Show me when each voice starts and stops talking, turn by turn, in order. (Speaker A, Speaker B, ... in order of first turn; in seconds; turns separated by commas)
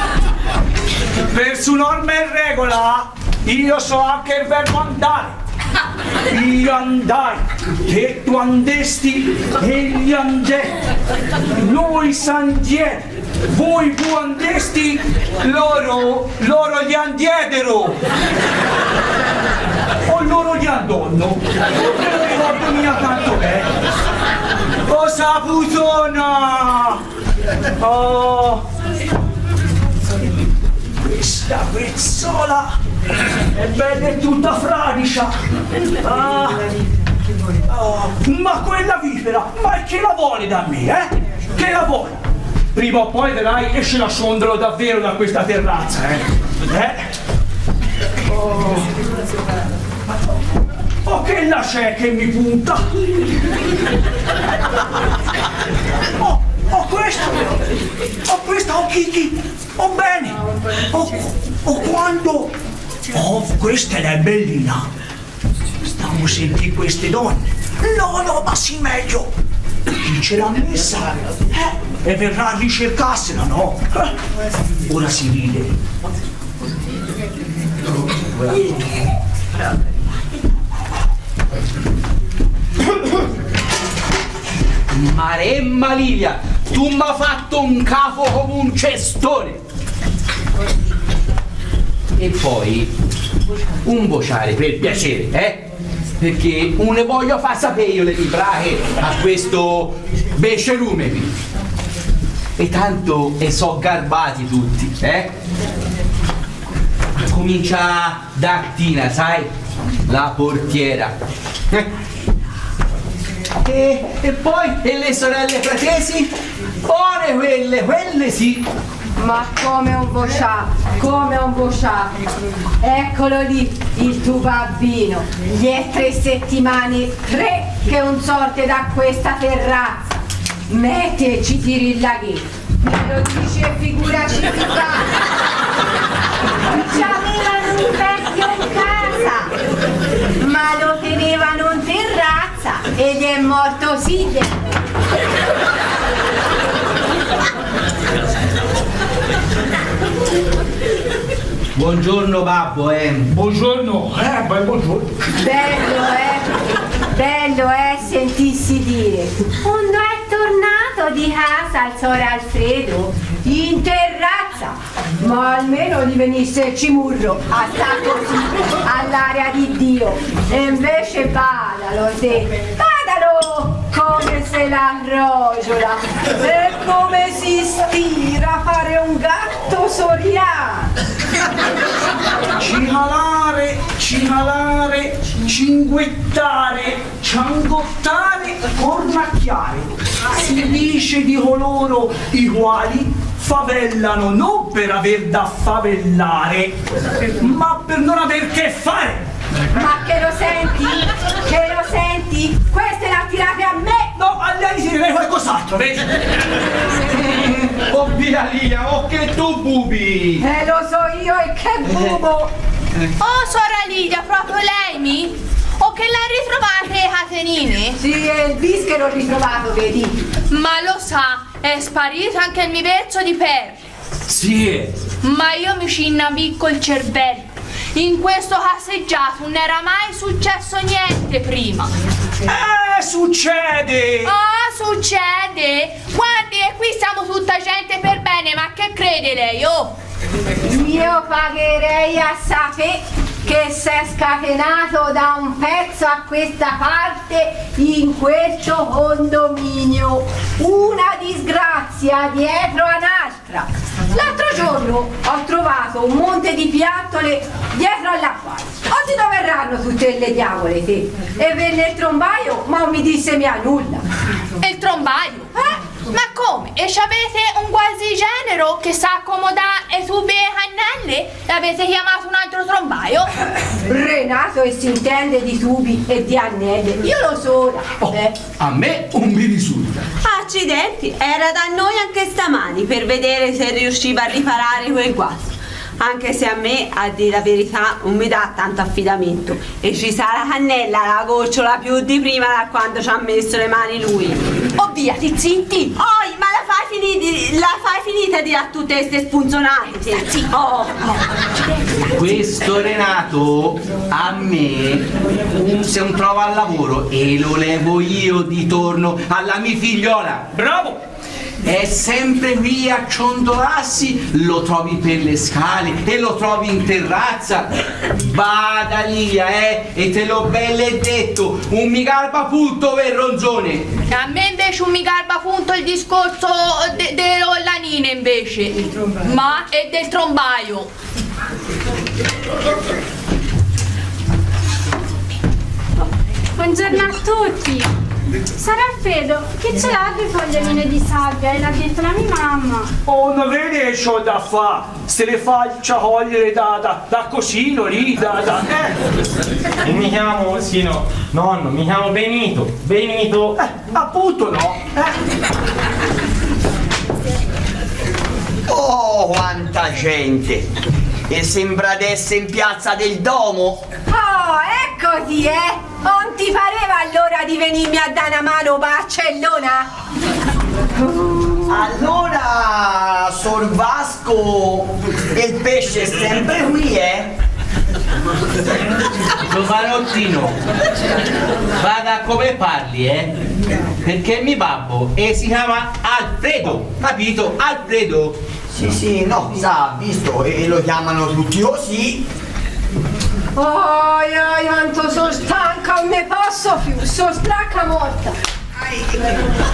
Speaker A: 1.3-5.3, Speaker A: 6.3-10.8, Speaker A: 11.6-18.0, Speaker A: 20.1-23.7, Speaker A: 24.9-27.0, Speaker A: 27.8-28.6, Speaker A: 30.9-32.7, Speaker A: 33.5-35.3, Speaker A: 35.9-36.6, Speaker A: 37.7-42.2, Speaker A: 42.7-47.0, Speaker A: 48.4-48.8, Speaker A: 51.0-53.1, Speaker A: 56.2-57.6, Speaker A: 58.2-62.5, Speaker A: 63.1-64.9, Speaker A: 65.8-69.3, Speaker A: 69.9-74.2, Speaker A: 74.9-75.8, Speaker B: 84.9-89.6, Speaker B: 92.2-92.9, Speaker B: 93.8-95.6, Speaker B: 96.2-101.3, Speaker B: 102.6-105.3, Speaker B: 107.2-109.5, Speaker B: 110.1-111.1, Speaker B: 113.6-116.3, Speaker B: 116.8-118.7, Speaker C: 119.2-122.1, Speaker C: 122.8-130.0, Speaker C: 130.7-135.1, Speaker C: 136.7-139.5, Speaker C: 140.4-144.7, Speaker B: 151.8-153.3, Speaker A: 153.3-155.3, Speaker C: 155.4-156.5, Speaker C: 157.1-180.9, Speaker A: 182.6-196.8, Speaker A: 197.4-199.2, Speaker C: 199.7-204.1, Speaker A: 204.2-206.2, Speaker B: 207.1-210.4, Speaker C: 210.4-212.5, Speaker B: 211.8-212.2, Speaker D: 213.2-218.0, Speaker C: 218.0-220.3, Speaker D: 220.5-223.8, Speaker A: 224.3-224.9, Speaker D: 225.2-231.9, Speaker A: 232.4-234.3, Speaker D: 234.2-239.9, Speaker C: 240.6-264.1, Speaker D: 264.6-273.4, Speaker C: 273.9-278.3, Speaker B: 278.0-280.1, Speaker E: 280.2-294.4, Speaker D: 294.8-295.9, Speaker E: 295.9-301.5, Speaker B: 302.1-310.5, Speaker A: 310.5-311.0, Speaker B: 311.6-323.9, Speaker D: 324.1-330.9, Speaker F: 336.6-337.9, Speaker F: 338.6-342.9, Speaker A: 343.1-349.0, Speaker G: 349.8-353.6, Speaker A: 353.6-355.2, Speaker H: 358.7-360.6, Speaker H: 361.3-363.9, Speaker C: 364.1-369.9, Speaker H: 371.7-377.3, Speaker B: 379.5-380.6, Speaker B: 381.8-383.3, Speaker B: 384.0-388.4, Speaker H: 388.7-392.2, Speaker C: 393.6-398.4, Speaker C: 398.9-399.3